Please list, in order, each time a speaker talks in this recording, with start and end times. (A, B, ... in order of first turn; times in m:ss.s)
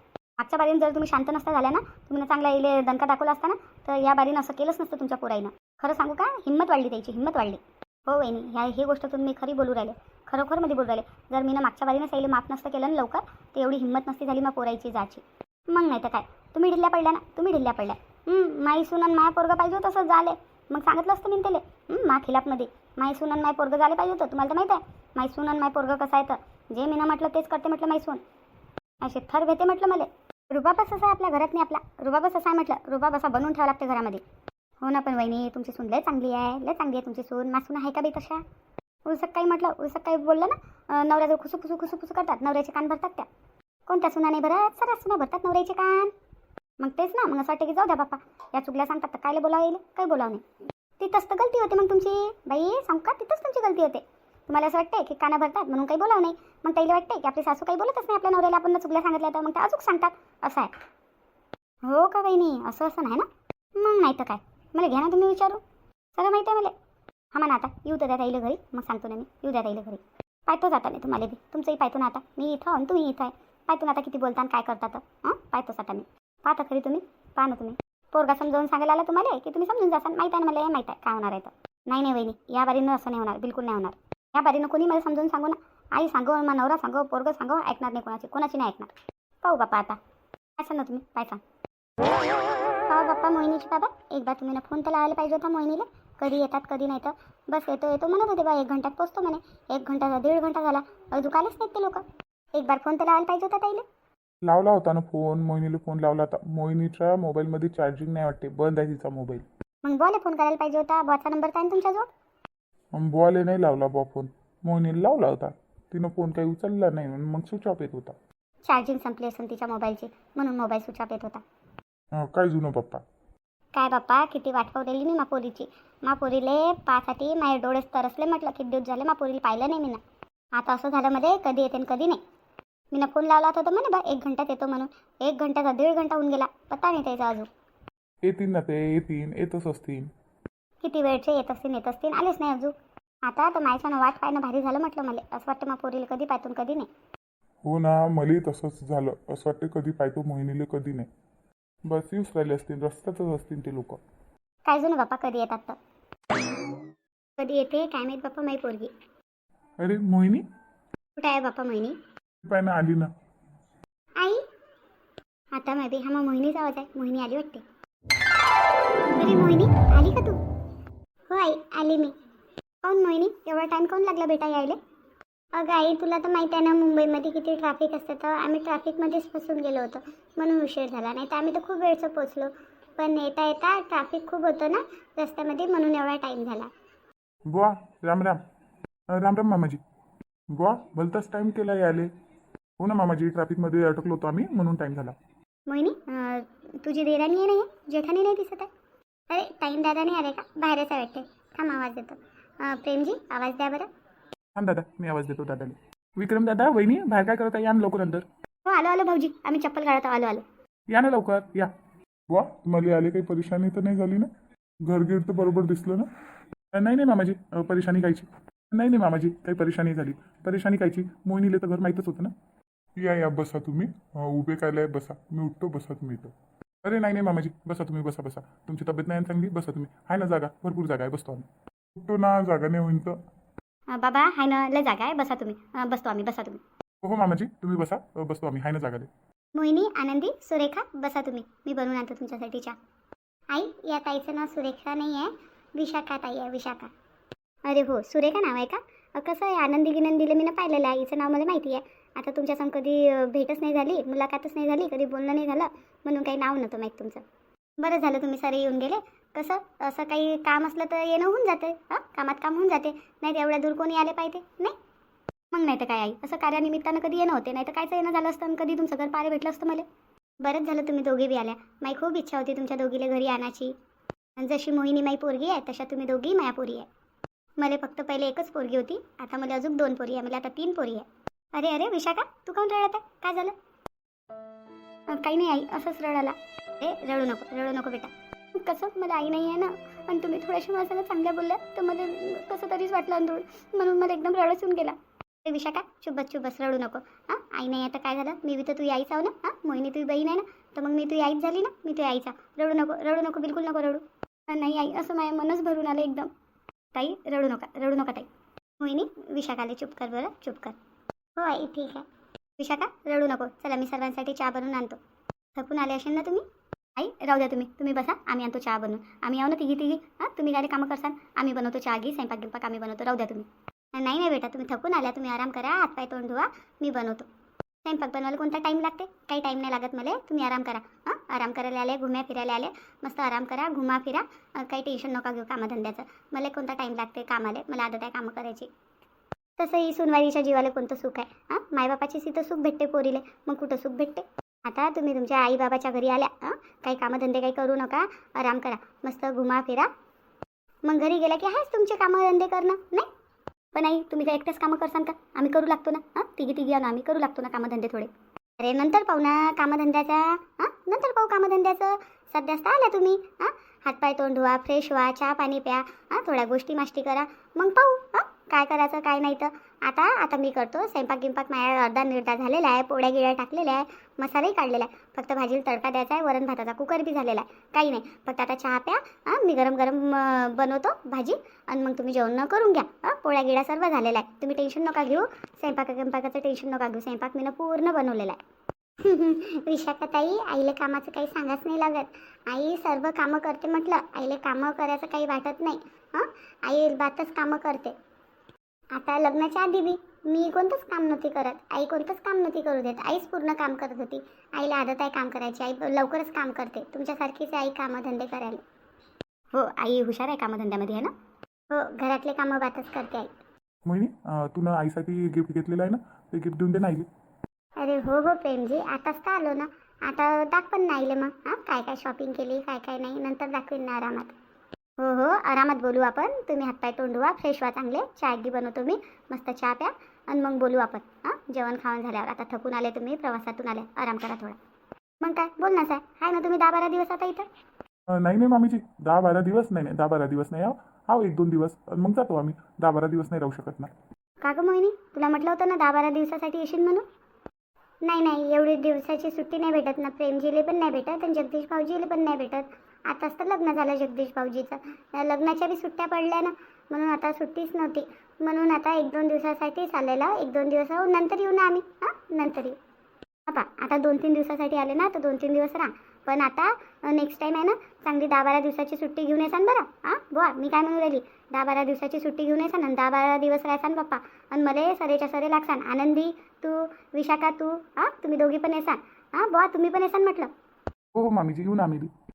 0:00.4-0:28.2 A
0:29.0-0:34.2 A
0:34.8-0:38.4 A
0:39.0-0:43.3 A
0:43.9-0:46.1 A
0:46.8-0:50.4 A
0:51.0-1:00.7 A
1:01.8-1:05.6 A
1:06.2-1:06.7 A
1:07.3-1:28.9 A
1:29.4-1:30.0 A
1:30.6-1:31.4 A
1:32.9-1:43.8 A
1:44.4-1:49.4 B
1:49.8-1:52.1 A
1:52.9-1:58.1 B
1:58.7-2:01.4 A
2:02.1-2:03.0 B
2:03.7-2:10.0 A
2:10.5-2:12.2 A
2:12.9-2:17.5 A
2:18.2-2:20.1 B
2:20.8-2:22.7 A
2:23.2-2:26.9 A
2:27.6-2:31.1 B
2:31.9-2:34.0 B
2:34.6-2:35.8 A
2:37.4-2:38.9 A
2:39.8-2:40.4 B
2:41.2-2:42.0 A
2:42.4-2:43.1 B
2:44.2-2:44.4 A
2:45.5-2:47.6 A
2:49.1-2:50.4 A
2:51.3-2:52.1 A
2:52.8-2:54.8 A
2:55.5-3:06.7 A
3:07.5-3:08.4 B
3:09.1-3:09.8 B
3:10.5-3:12.1 B
3:12.8-3:15.2 B
3:15.7-3:18.7 A
3:19.3-3:23.9 A
3:24.6-3:28.2 B
3:28.6-3:30.4 A
3:30.9-3:31.7 B
3:32.3-3:34.3 B
3:34.8-3:36.1 B
3:36.7-3:42.3 B
3:43.0-3:46.3 B
3:46.8-3:53.2 B
3:53.9-3:56.6 A
3:57.0-3:59.1 B
3:59.5-4:02.8 A
4:03.5-4:06.9 A
4:07.6-4:17.2 A
4:17.8-4:24.8 A
4:25.5-4:29.8 A
4:30.4-4:33.8 A
4:34.4-4:36.9 A
4:37.6-4:43.5 A
4:45.1-5:06.3 A
5:06.9-5:08.3 A
5:08.8-5:10.8 A
5:11.4-5:12.0 A
5:12.6-5:15.0 A
5:15.6-5:27.2 A
5:27.8-5:38.7 A
5:39.6-5:49.9 A
5:50.8-5:53.1 A
5:53.7-6:28.4 A
6:29.0-6:37.9 A
6:38.9-6:48.6 A
6:49.5-6:51.1 A
6:51.7-6:53.3 A
6:53.8-6:57.0 B
6:57.8-7:04.3 A
7:05.0-7:14.6 A
7:15.2-7:17.5 A
7:18.1-7:23.9 B
7:24.4-7:27.0 A
7:28.0-7:42.8 A
7:43.5-8:00.5 A
8:01.1-8:02.1 B